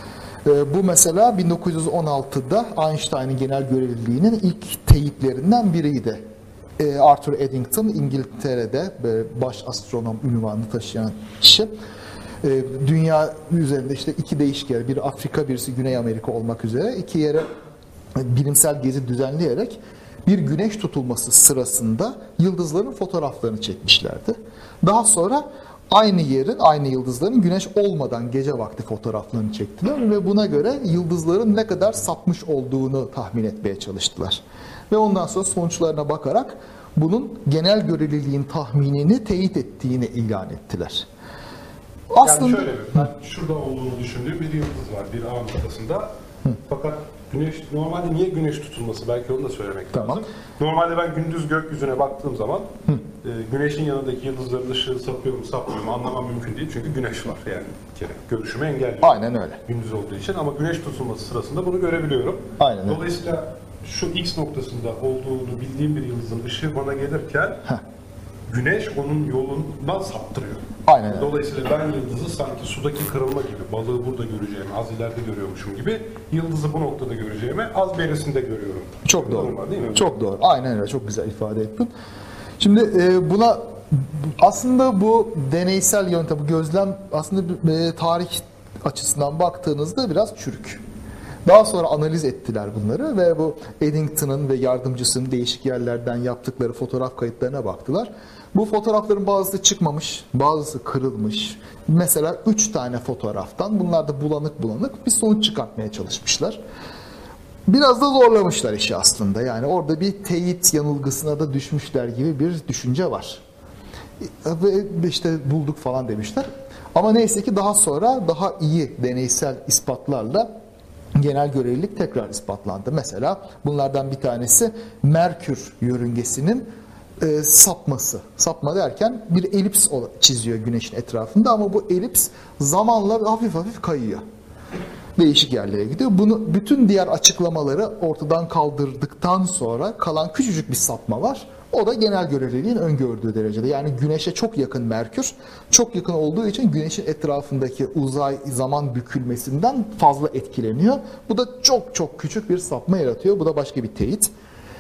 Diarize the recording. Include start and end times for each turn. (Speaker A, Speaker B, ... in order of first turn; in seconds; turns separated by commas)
Speaker A: 0.4-6.2, Speaker A: 6.8-11.7, Speaker A: 12.4-17.5, Speaker A: 18.1-41.1, Speaker A: 42.1-42.8, Speaker B: 42.2-46.1, Speaker B: 46.7-52.7, Speaker A: 49.9-50.2, Speaker B: 53.2-67.6, Speaker A: 59.0-59.6, Speaker A: 62.6-63.0, Speaker B: 68.5-80.1, Speaker A: 70.9-71.3, Speaker A: 79.1-81.9, Speaker A: 82.6-90.8, Speaker A: 91.5-106.6, Speaker A: 107.7-113.4, Speaker A: 114.2-120.5, Speaker A: 121.2-126.7, Speaker A: 127.2-134.2, Speaker A: 135.2-154.3